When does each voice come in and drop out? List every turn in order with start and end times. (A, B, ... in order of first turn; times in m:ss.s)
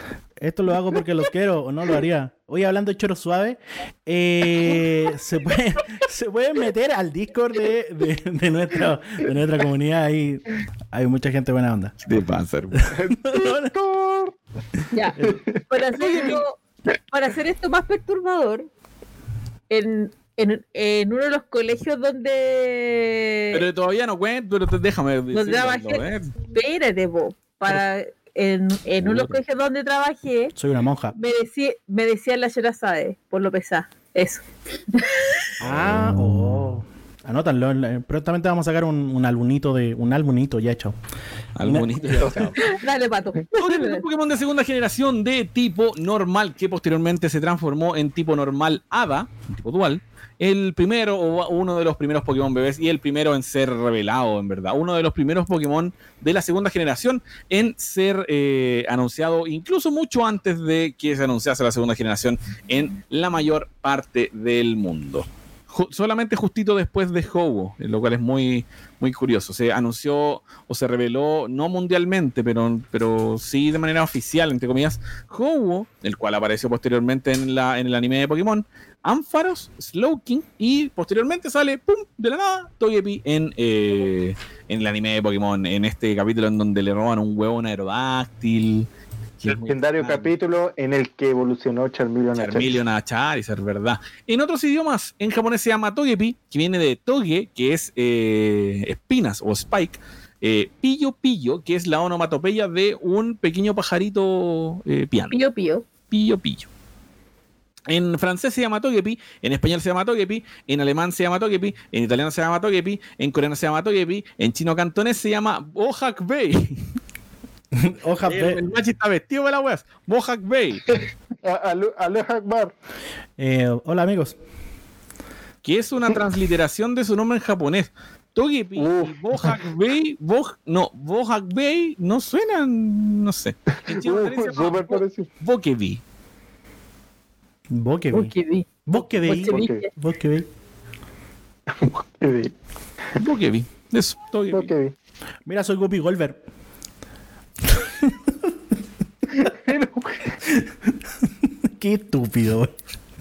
0:00.4-0:13.7 A
0:12.0-0:12.8 B
0:12.9-0:14.3 C
0:14.9-0:15.2 D
0:15.2-0:16.4 C
0:15.7-0:16.6 D
0:16.0-0:16.4 B
0:17.1-0:18.7 D
0:19.7-0:23.7 D
0:23.5-0:26.3 B
0:25.3-0:30.5 D
0:29.0-0:29.4 B
0:30.6-0:31.1 A
0:31.1-0:35.3 D
0:35.6-0:41.0 A
0:35.6-0:36.1 B
0:41.5-0:42.6 B
0:41.6-0:42.6 A
0:42.6-0:44.0 D
0:43.5-1:28.9 B
1:29.4-1:30.3 B
1:29.5-1:32.8 C
1:32.3-1:45.4 B
1:45.3-1:45.8 D
1:46.1-1:46.7 B
1:47.9-1:56.8 B
1:57.7-1:58.6 A
1:58.3-2:00.8 B
2:01.4-2:02.7 C
2:03.4-2:04.4 A
2:05.6-2:16.0 B
2:08.8-2:09.5 C
2:13.9-2:15.3 C
2:17.7-2:18.3 A
2:18.1-2:19.9 D
2:18.9-2:20.5 A
2:19.2-2:19.8 C
2:21.7-2:22.5 C
2:23.2-2:24.7 B
2:24.5-2:24.9 C
2:25.4-2:26.4 A
2:27.7-2:28.3 A
2:29.3-2:30.3 C
2:30.4-2:30.7 A
2:31.8-2:32.7 A